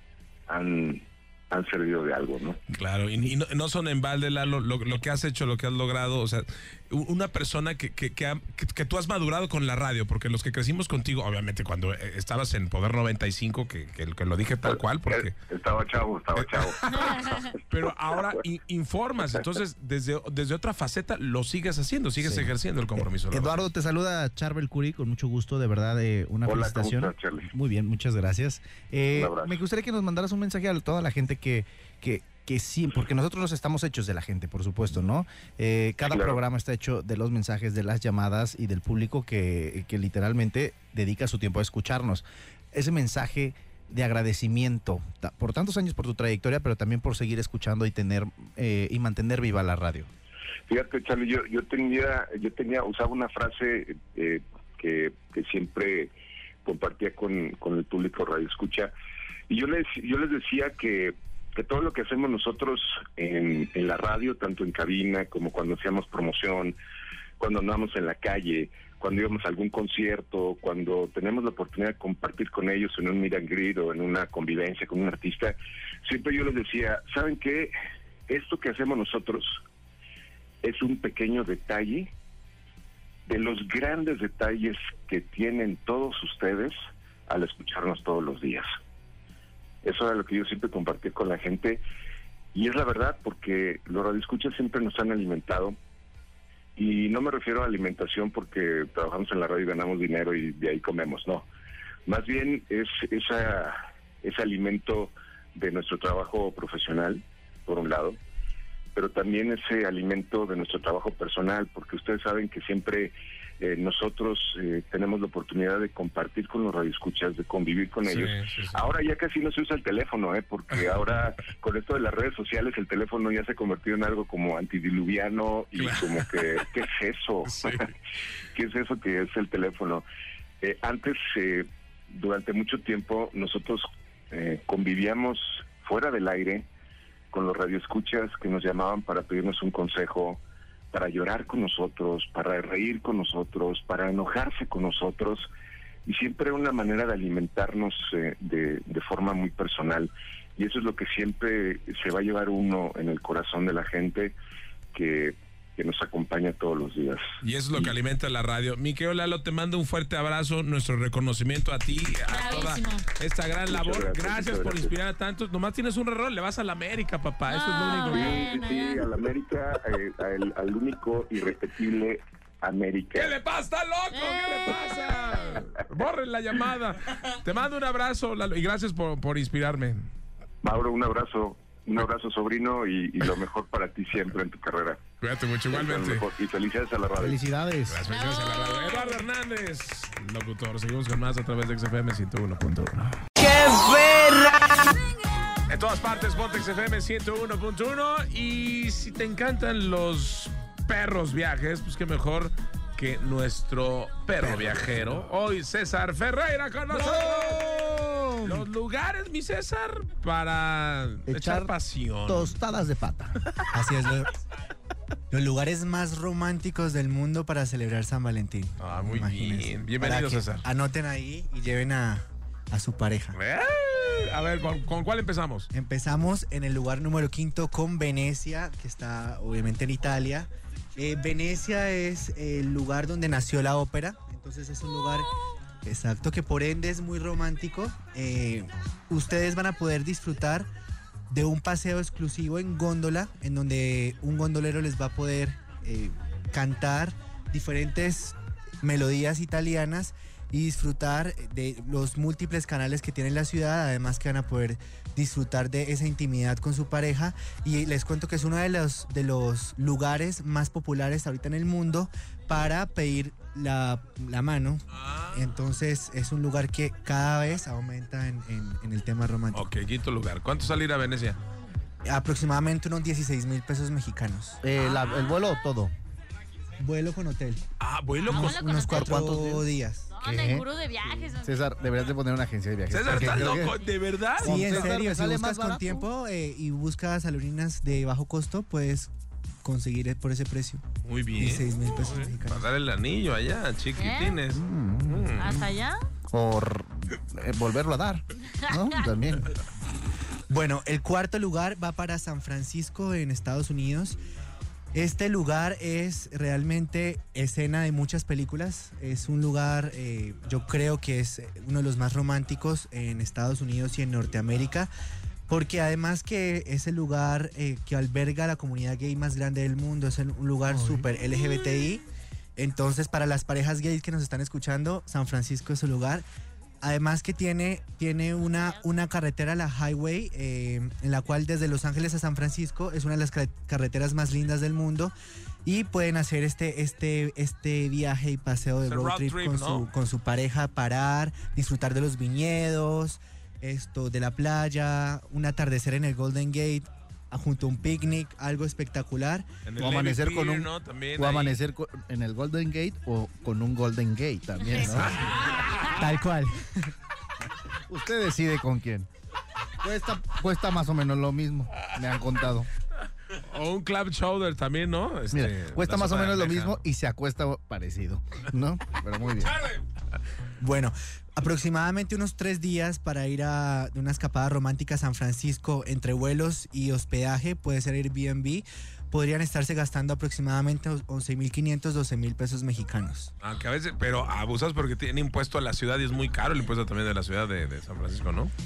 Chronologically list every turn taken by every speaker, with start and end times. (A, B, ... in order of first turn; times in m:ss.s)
0:00.5-0:02.6 A
0:02.7-0:15.3 B
0:14.6-0:17.6 A
0:16.4-0:17.0 B
0:16.9-0:17.5 C
0:17.7-0:23.6 B
0:22.2-0:50.1 D
0:26.4-0:27.5 A
0:29.1-0:29.6 A
0:36.0-0:36.4 A
0:50.7-0:56.1 A
0:56.6-0:58.9 A
0:59.5-1:06.8 A
1:07.4-1:17.7 A
1:18.3-1:19.6 A
1:20.6-1:22.1 A
1:23.2-1:26.8 A
1:27.3-1:28.7 A
1:29.8-1:31.8 A
1:32.5-1:35.8 A
1:36.8-1:41.5 A
1:42.0-1:48.2 A
1:48.9-2:07.8 A
1:58.0-1:58.8 B
2:05.7-2:06.6 B
2:07.4-2:07.9 B
2:08.5-2:10.0 A
2:10.6-2:16.7 A
2:17.3-2:20.4 A
2:20.9-2:25.5 A
2:26.0-2:34.3 A
2:34.9-2:37.9 A
2:37.4-2:48.5 B
2:42.3-2:43.0 C
2:43.7-2:44.9 A
2:47.5-2:49.0 C
2:48.0-2:53.4 A
2:53.1-3:00.0 B
2:54.1-2:55.6 C
3:00.6-3:05.0 A
3:05.2-3:06.2 B
3:05.7-3:07.4 A
3:07.2-3:08.0 D
3:07.9-3:14.4 B
3:08.1-3:09.2 C
3:15.7-3:27.6 B
3:26.9-3:28.7 D
3:28.4-3:32.6 B
3:31.3-3:31.7 D
3:32.2-3:33.4 D
3:33.7-3:34.3 E
3:35.3-3:43.4 E
3:38.8-3:40.6 B
3:43.3-3:45.7 B
3:45.7-3:55.3 E
3:55.8-4:00.7 E
4:01.3-4:24.8 E
4:24.9-4:25.4 B
4:25.3-4:29.7 E
4:29.5-4:31.4 B
4:32.0-4:34.6 E
4:34.6-4:35.9 D
4:34.8-4:35.6 C
4:36.8-4:37.6 E
4:37.8-4:38.6 B
4:38.2-4:39.2 C
4:38.3-4:40.1 E
4:38.9-4:39.6 D
4:40.1-4:41.6 C
4:40.2-4:43.8 D
4:42.9-4:44.9 B
4:44.4-4:46.1 D
4:44.4-4:49.1 E
4:49.6-4:50.8 E
4:51.0-4:55.6 B
4:51.3-4:52.7 E
4:54.0-4:54.4 C
4:54.5-4:55.7 D
4:55.4-4:56.0 C
4:56.3-4:59.6 D
4:58.6-4:59.0 C
5:00.5-5:04.2 E
5:04.9-5:14.9 E
5:15.5-5:22.0 E
5:20.7-5:21.0 D
5:22.6-5:26.2 E
5:26.8-5:35.1 E
5:28.6-5:28.8 C
5:35.6-5:49.5 E
5:38.8-5:39.9 B
5:49.6-5:51.6 B
5:49.8-5:55.3 D
5:54.8-5:56.0 B
5:55.5-5:55.9 C
5:56.0-5:56.9 E
5:57.9-5:59.1 D
5:59.8-6:02.7 D
6:03.3-6:06.8 B
6:05.3-6:09.6 D
6:10.6-6:23.3 E
6:23.4-6:28.5 B